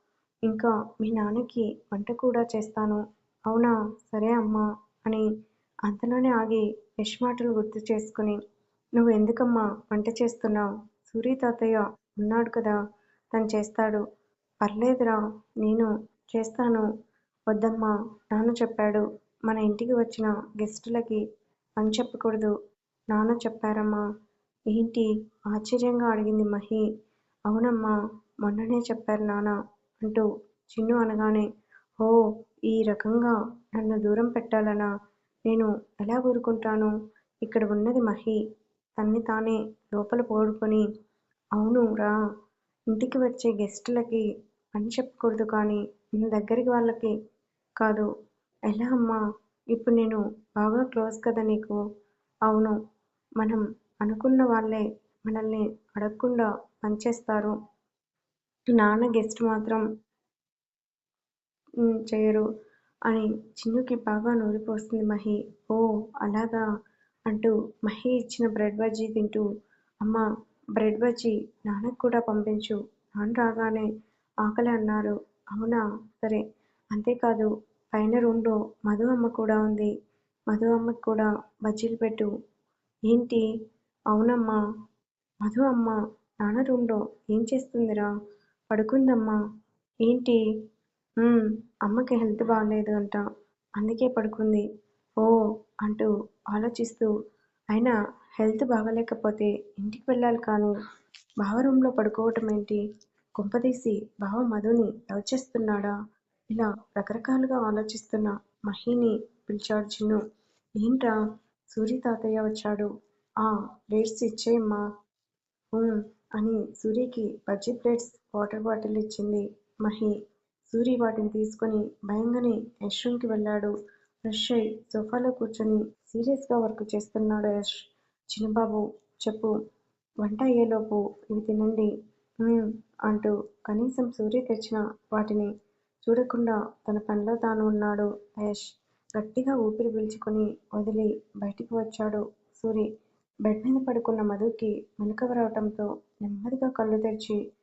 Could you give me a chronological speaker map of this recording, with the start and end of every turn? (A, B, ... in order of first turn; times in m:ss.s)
0:00.5-0:05.3 A
0:05.9-0:08.4 A
0:09.0-0:12.8 A
0:13.3-0:14.0 A
0:14.6-0:16.9 A
0:17.5-0:21.2 A
0:21.8-0:22.5 A
0:23.1-0:24.0 A
0:24.7-0:26.8 A
0:27.5-0:31.4 A
0:32.7-0:34.9 A
0:35.5-0:38.4 A
0:39.0-0:40.8 A
0:41.6-0:42.1 A
0:42.9-0:44.2 A
0:44.8-0:47.1 A
0:47.8-0:48.1 A
0:48.7-0:49.2 A
0:49.7-0:51.8 A
0:52.5-0:52.8 A
0:53.4-0:57.6 A
0:58.8-0:59.8 A
1:01.8-1:02.4 A
1:03.1-1:06.6 A
1:07.3-1:09.4 A
1:10.8-1:13.9 A
1:14.4-1:16.4 A
1:16.9-1:19.9 A
1:20.5-1:22.3 A
1:23.1-1:23.4 A
1:24.1-1:24.6 A
1:25.4-1:28.1 A
1:28.7-1:29.4 A
1:30.0-1:30.4 A
1:31.2-1:33.2 A
1:33.8-1:34.6 A
1:35.2-1:37.1 A
1:37.7-1:40.8 A
1:41.4-1:42.8 A
1:43.4-1:45.9 A
1:46.5-1:50.2 A
1:50.8-1:51.2 A
1:51.7-1:52.9 A
1:53.4-1:54.8 A
1:55.7-2:00.1 A
2:00.7-2:03.7 A
2:04.2-2:07.8 A
2:08.3-2:09.5 A
2:10.2-2:11.9 A
2:12.4-2:15.5 A
2:16.0-2:18.6 A
2:19.2-2:22.9 A
2:23.4-2:27.4 A